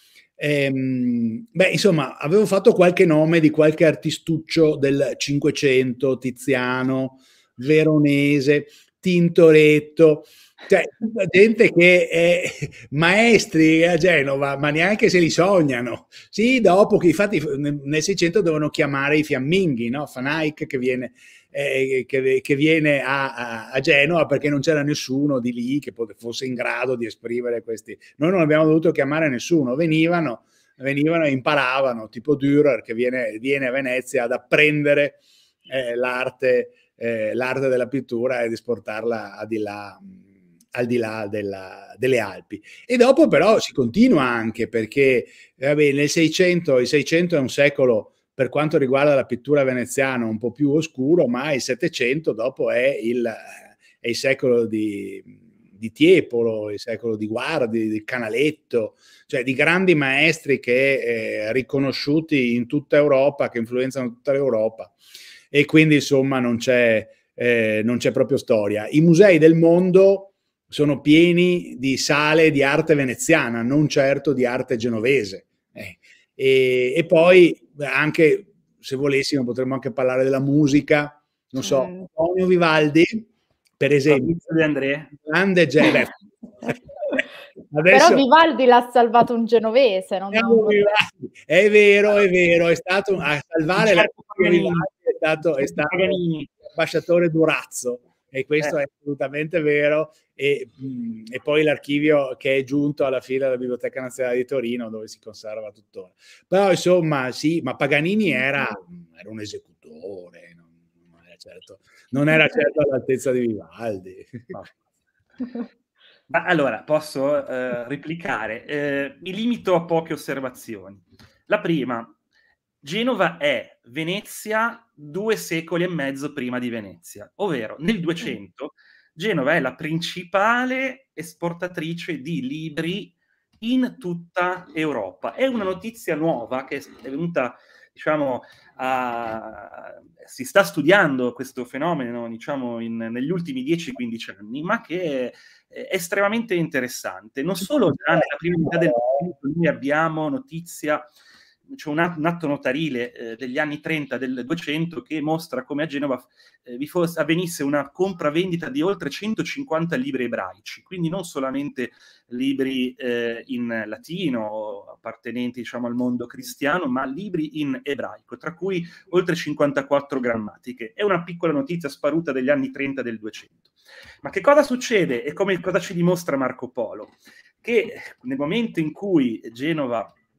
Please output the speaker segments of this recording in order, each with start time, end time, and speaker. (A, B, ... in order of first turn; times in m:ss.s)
0:00.4-0:40.2 A
0:40.7-1:04.9 A
1:05.5-1:24.3 A
1:21.6-1:22.1 B
1:24.1-1:25.1 C
1:25.2-1:26.2 A
1:27.7-1:28.2 A
1:27.9-1:30.9 B
1:30.3-1:36.2 A
1:33.8-1:34.9 C
1:35.6-1:36.5 C
1:36.7-1:54.6 A
1:56.3-2:02.1 C
2:02.8-2:31.1 C
2:28.8-2:29.2 A
2:31.7-2:53.7 C
2:54.2-3:00.1 C